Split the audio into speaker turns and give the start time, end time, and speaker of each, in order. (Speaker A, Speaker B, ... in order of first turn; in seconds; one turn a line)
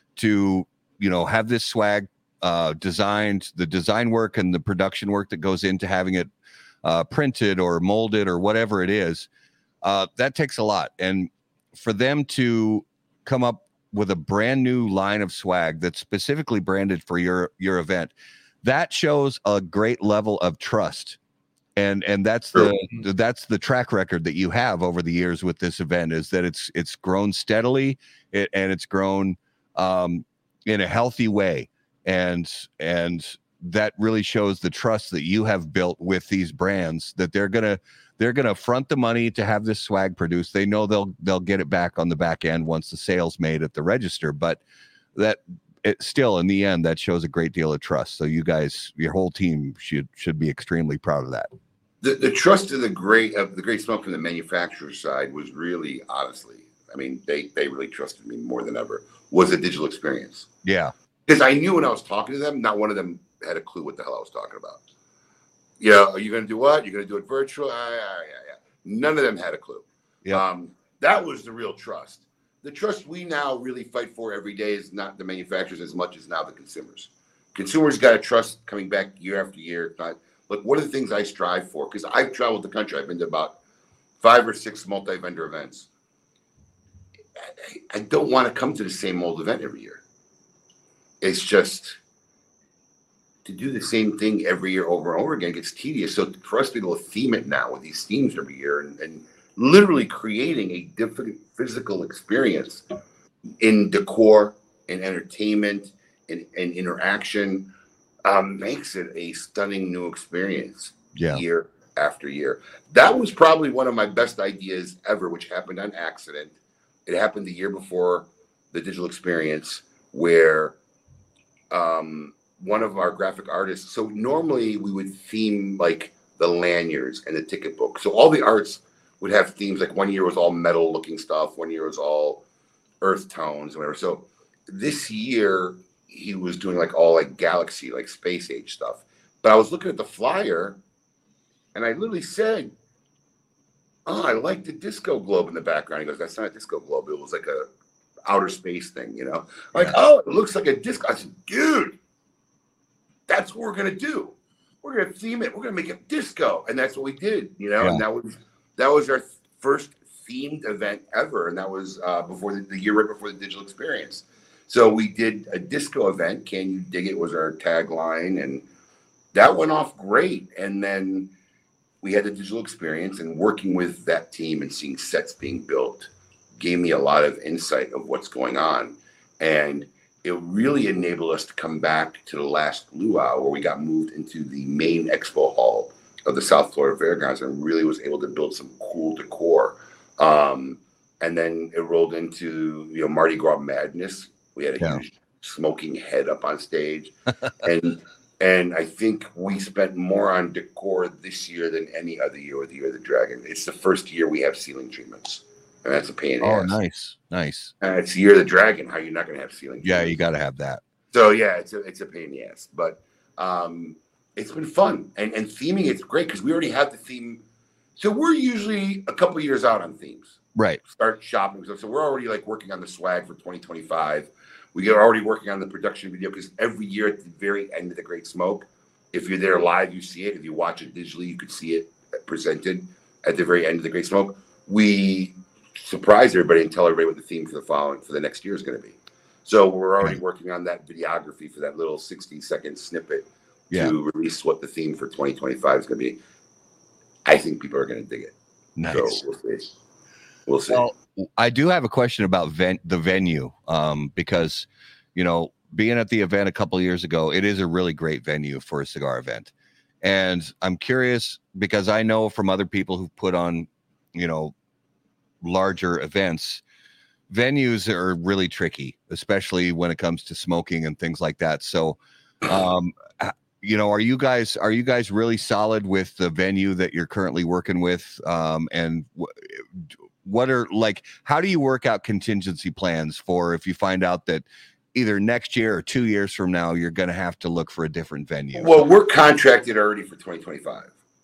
Speaker A: 0.1-6.3
Speaker A: 6.8-9.3
Speaker A: 9.8-21.2
Speaker A: 21.8-44.6
Speaker A: 45.1-51.5
Speaker B: 52.0-60.5
Speaker A: 60.6-60.9
Speaker B: 61.3-64.8
Speaker B: 65.8-83.6
Speaker B: 84.2-85.9
Speaker B: 87.4-90.0
Speaker B: 91.2-92.0
Speaker B: 93.4-102.8
Speaker B: 103.6-107.7
Speaker B: 108.2-116.5
Speaker A: 111.1-111.4
Speaker B: 117.1-120.8
Speaker B: 121.7-132.4
Speaker B: 133.0-140.8
Speaker B: 141.7-142.7
Speaker B: 144.1-147.7
Speaker B: 148.3-152.0
Speaker B: 153.3-168.6
Speaker B: 169.3-171.3
Speaker B: 172.0-206.8
Speaker A: 206.4-207.7
Speaker B: 207.8-210.2
Speaker A: 209.8-210.8
Speaker B: 211.1-217.4
Speaker B: 218.0-246.2
Speaker A: 220.5-220.8
Speaker B: 247.2-248.3
Speaker A: 248.8-249.2
Speaker B: 248.9-249.7
Speaker B: 250.5-250.9
Speaker A: 250.7-259.5
Speaker A: 260.0-264.5
Speaker A: 265.4-266.6
Speaker A: 267.3-288.8
Speaker B: 288.5-290.9